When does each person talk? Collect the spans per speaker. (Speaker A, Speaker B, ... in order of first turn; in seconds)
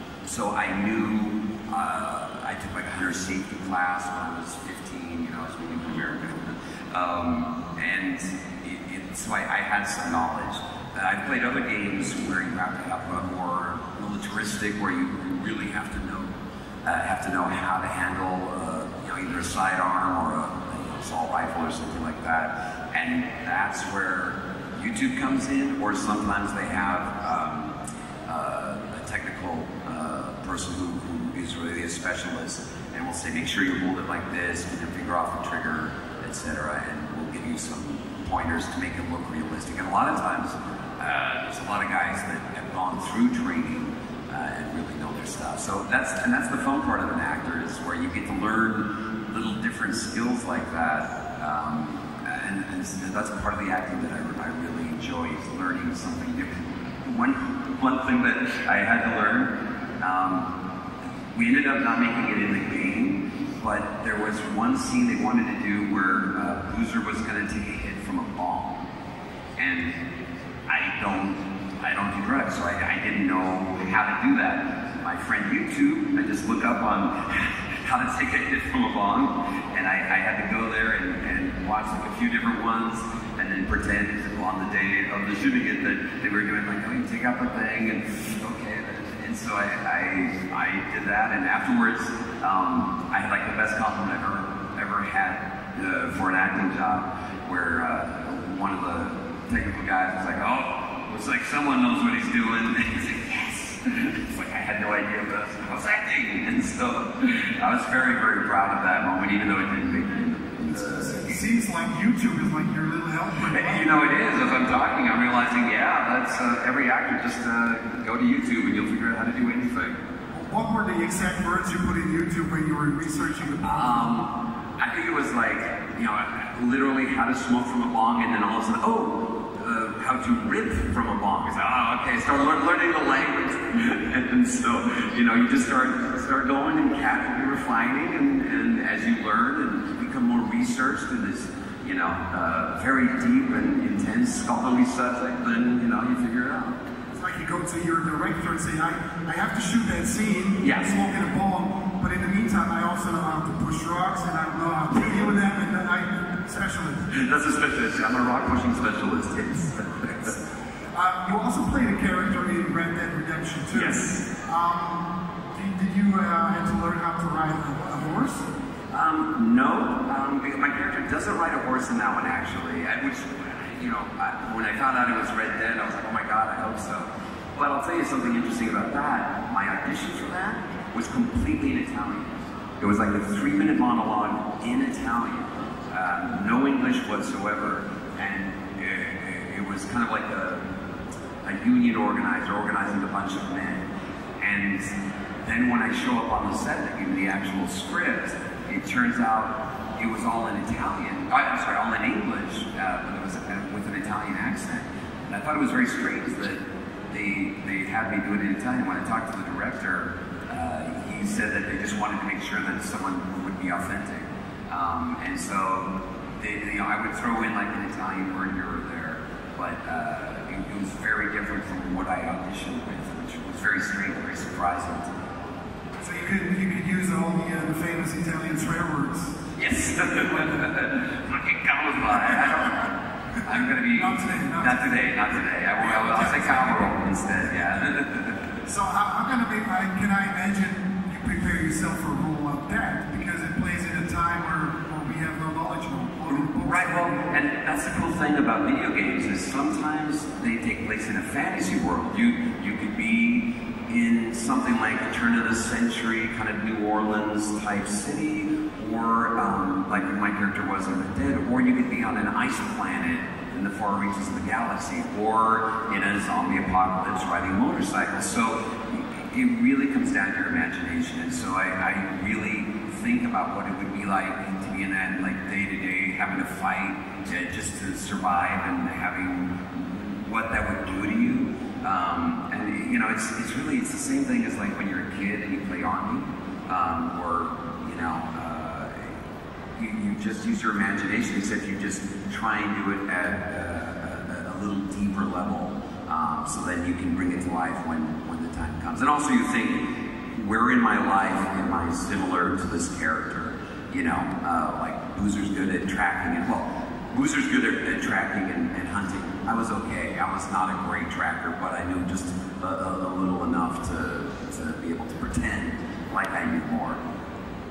Speaker A: 0.2-60.5, 61.3-68.8, 69.6-70.0, 70.7-111.5, 113.4-120.0, 123.6-146.8, 150.6-150.9, 157.1-160.3, 163.7-164.2, 168.9-190.6, 191.4-193.8, 194.4-225.1, 229.6-238.6, 246.3-289.2, 289.8-317.0
Speaker B: 110.8-113.9, 120.3-124.0, 147.1-157.2, 160.9-168.5, 226.0-229.4, 233.5-234.8, 235.8-236.9, 238.7-247.2